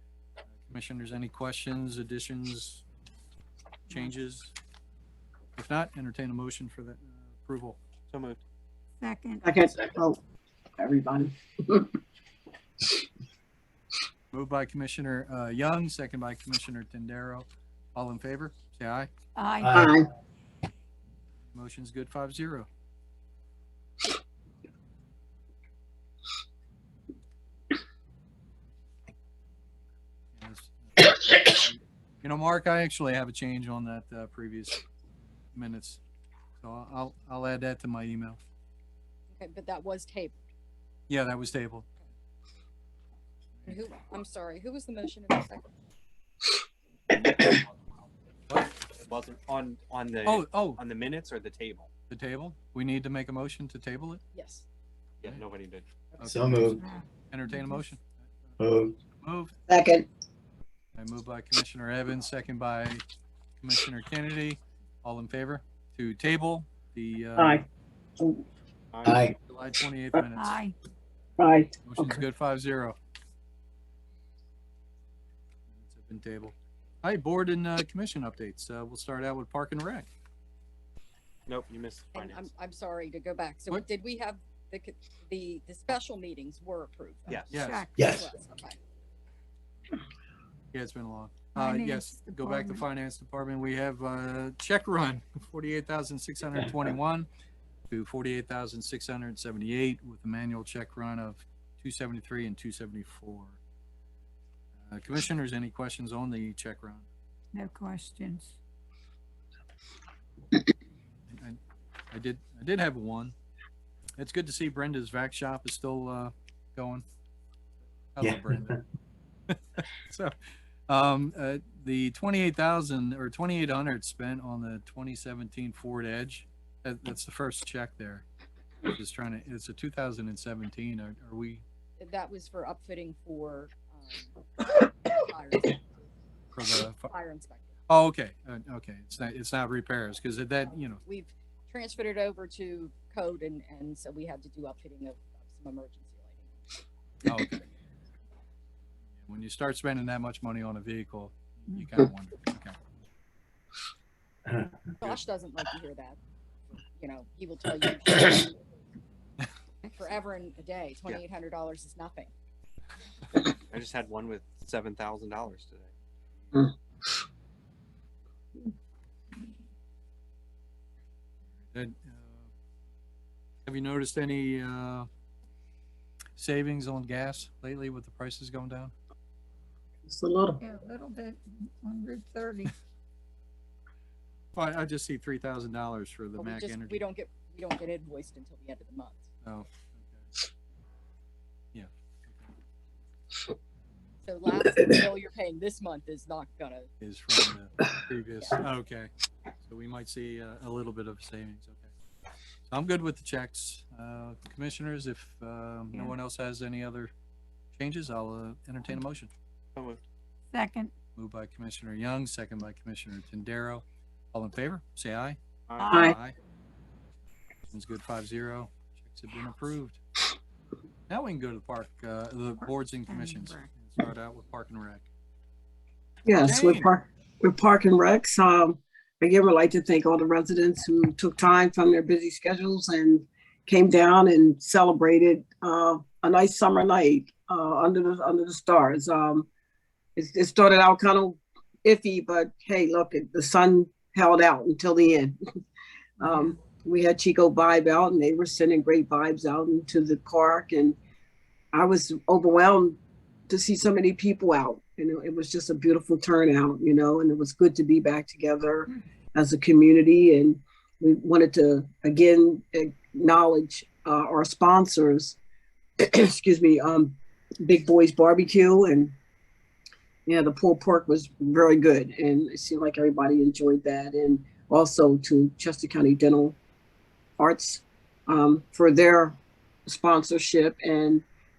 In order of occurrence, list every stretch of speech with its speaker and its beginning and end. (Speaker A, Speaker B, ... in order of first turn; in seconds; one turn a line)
Speaker A: 0.7-2.8
Speaker A: 3.9-4.5
Speaker A: 5.6-7.8
Speaker B: 8.1-8.4
Speaker C: 9.0-9.4
Speaker D: 9.4-10.2
Speaker D: 10.8-11.9
Speaker A: 14.3-19.1
Speaker C: 19.4-19.8
Speaker E: 19.6-19.9
Speaker D: 19.7-20.1
Speaker A: 21.5-22.7
Speaker A: 30.4-34.8
Speaker A: 35.5-36.0
Speaker A: 36.6-38.4
Speaker F: 39.3-40.4
Speaker A: 41.1-41.9
Speaker F: 43.7-45.7
Speaker B: 47.1-47.7
Speaker B: 49.0-51.9
Speaker A: 50.3-50.8
Speaker A: 52.1-54.2
Speaker F: 54.3-54.6
Speaker B: 55.2-55.9
Speaker A: 56.2-58.5
Speaker E: 56.3-56.8
Speaker C: 56.8-57.8
Speaker E: 58.6-59.0
Speaker A: 59.2-59.5
Speaker D: 59.7-60.1
Speaker A: 61.0-63.0
Speaker A: 63.6-67.6
Speaker D: 67.4-67.7
Speaker B: 68.9-69.3
Speaker E: 69.0-69.3
Speaker A: 69.1-70.6
Speaker C: 70.4-70.8
Speaker D: 71.4-72.1
Speaker A: 71.8-73.0
Speaker A: 75.7-80.1
Speaker B: 81.5-82.5
Speaker F: 82.1-88.8
Speaker B: 87.3-87.6
Speaker A: 87.5-87.9
Speaker C: 87.6-88.0
Speaker E: 88.0-88.3
Speaker A: 90.7-97.3
Speaker C: 91.5-92.8
Speaker A: 97.9-103.6
Speaker A: 104.9-107.1
Speaker C: 107.5-108.5
Speaker A: 111.3-111.6
Speaker A: 112.1-113.3
Speaker A: 114.2-117.0
Speaker A: 118.2-118.8
Speaker A: 119.5-120.3
Speaker A: 120.9-128.3
Speaker A: 128.8-131.6
Speaker F: 132.0-135.9
Speaker A: 136.5-137.1
Speaker F: 137.1-137.7
Speaker A: 137.9-141.0
Speaker F: 141.1-146.5
Speaker A: 147.2-147.7
Speaker A: 149.2-152.8
Speaker F: 155.0-156.2
Speaker F: 157.0-158.6
Speaker C: 159.8-160.2
Speaker F: 160.0-162.3
Speaker B: 163.7-165.9
Speaker A: 171.7-172.5
Speaker A: 173.7-175.1
Speaker A: 176.4-178.9
Speaker D: 180.1-180.6
Speaker C: 180.6-182.8
Speaker A: 184.6-187.0
Speaker F: 186.4-189.2
Speaker A: 189.4-190.3
Speaker A: 191.7-192.5
Speaker F: 194.2-196.9
Speaker A: 197.0-199.1
Speaker A: 199.6-201.9
Speaker A: 202.7-207.1
Speaker A: 207.8-209.3
Speaker B: 209.8-210.0
Speaker C: 210.5-210.9
Speaker A: 211.2-215.4
Speaker B: 215.7-216.1
Speaker C: 215.8-216.2
Speaker A: 216.0-216.3
Speaker A: 217.7-220.0
Speaker A: 221.1-225.1
Speaker C: 223.1-223.7
Speaker D: 226.2-239.5
Speaker A: 226.4-226.9
Speaker D: 240.2-245.4
Speaker D: 246.2-251.0
Speaker D: 251.7-253.0
Speaker D: 253.5-265.4
Speaker D: 266.0-269.1
Speaker D: 270.3-276.6
Speaker D: 277.4-281.2